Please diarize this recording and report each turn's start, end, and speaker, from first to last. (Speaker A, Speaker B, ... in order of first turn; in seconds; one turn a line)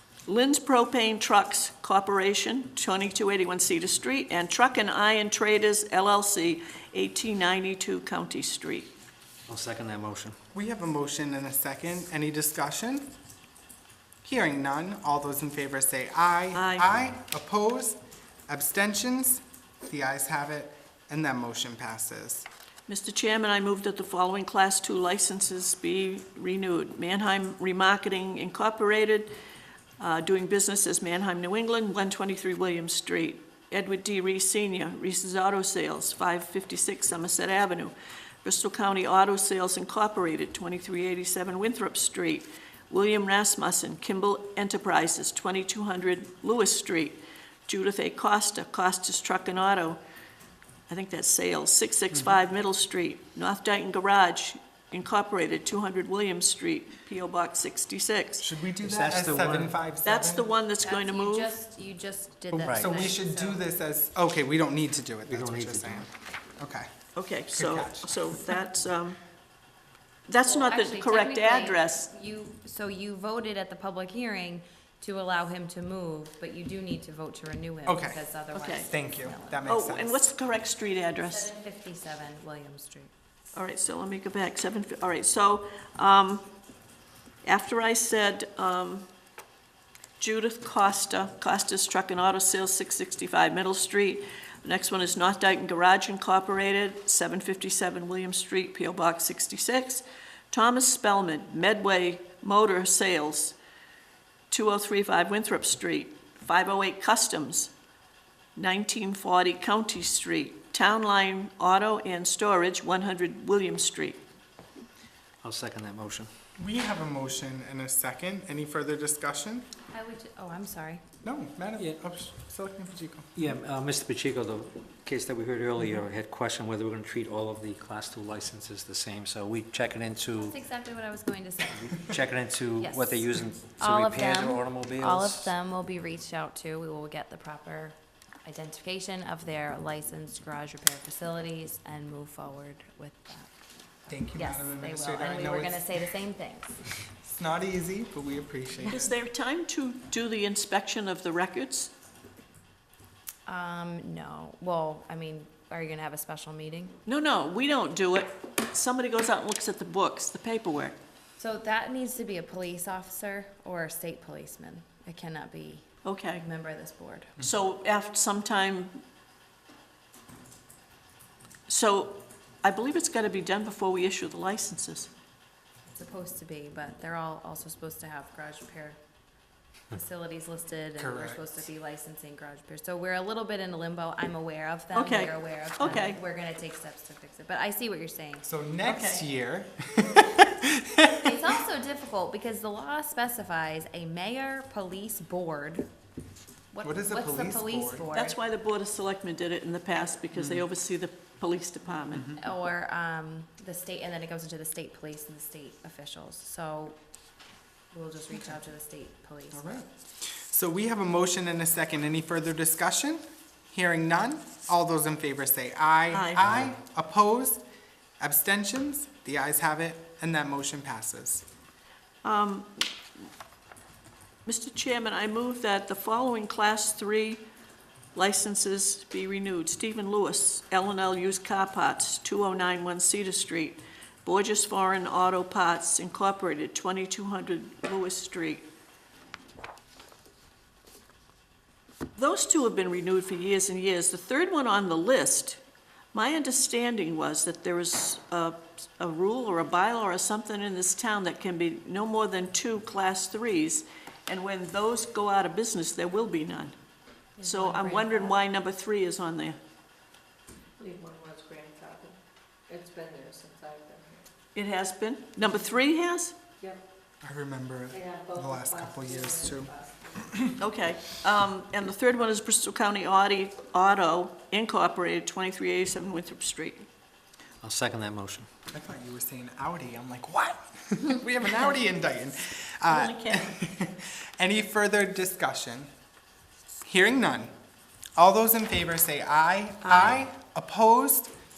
Speaker A: 0.3-8.9
Speaker B: 9.5-10.4
Speaker C: 10.5-13.1
Speaker C: 14.2-22.5
Speaker A: 16.5-16.9
Speaker A: 22.9-29.3
Speaker A: 30.0-50.0
Speaker A: 50.9-58.5
Speaker C: 58.4-60.5
Speaker B: 58.8-59.7
Speaker A: 60.0-61.5
Speaker D: 60.8-63.6
Speaker C: 62.5-66.1
Speaker B: 62.6-62.9
Speaker B: 65.3-66.1
Speaker C: 66.6-66.9
Speaker A: 67.2-69.2
Speaker C: 67.5-68.2
Speaker A: 70.3-72.1
Speaker D: 70.5-79.7
Speaker C: 77.9-78.2
Speaker A: 78.5-78.9
Speaker C: 78.8-80.2
Speaker A: 79.7-81.5
Speaker D: 81.1-83.1
Speaker A: 83.5-86.5
Speaker A: 87.4-89.1
Speaker A: 90.2-103.6
Speaker A: 104.5-107.7
Speaker A: 108.6-114.2
Speaker B: 115.4-116.3
Speaker C: 116.6-119.7
Speaker D: 119.9-121.0
Speaker C: 121.2-123.3
Speaker B: 123.4-130.6
Speaker D: 130.4-131.8
Speaker B: 131.7-135.5
Speaker D: 132.8-143.5
Speaker C: 144.1-146.0
Speaker D: 144.1-146.8
Speaker C: 147.2-149.1
Speaker A: 148.9-151.9
Speaker D: 153.5-157.0
Speaker A: 157.1-161.0
Speaker D: 161.4-167.3
Speaker A: 166.0-166.4
Speaker A: 167.4-169.0
Speaker A: 171.7-175.1
Speaker D: 175.9-179.0
Speaker D: 179.9-188.5
Speaker C: 181.0-181.4
Speaker A: 184.9-186.2
Speaker C: 188.4-190.7
Speaker A: 188.8-189.2
Speaker D: 191.1-195.9
Speaker D: 196.7-198.4
Speaker C: 196.8-198.1
Speaker A: 198.1-202.4
Speaker C: 200.3-200.7
Speaker C: 202.1-202.4
Speaker D: 202.4-207.0
Speaker D: 207.9-209.8
Speaker C: 209.5-217.6
Speaker A: 216.1-216.4
Speaker C: 218.2-221.4
Speaker A: 222.2-222.9
Speaker A: 224.5-227.4
Speaker A: 228.1-238.7
Speaker A: 242.2-245.6
Speaker A: 246.1-256.8
Speaker D: 257.4-258.4
Speaker A: 257.4-259.6
Speaker E: 260.8-264.3
Speaker A: 264.5-266.4
Speaker C: 267.2-270.5
Speaker E: 267.9-270.2
Speaker A: 270.6-276.9
Speaker B: 277.6-278.5
Speaker C: 278.7-285.9
Speaker A: 282.9-283.8
Speaker C: 286.9-287.5
Speaker C: 288.2-291.3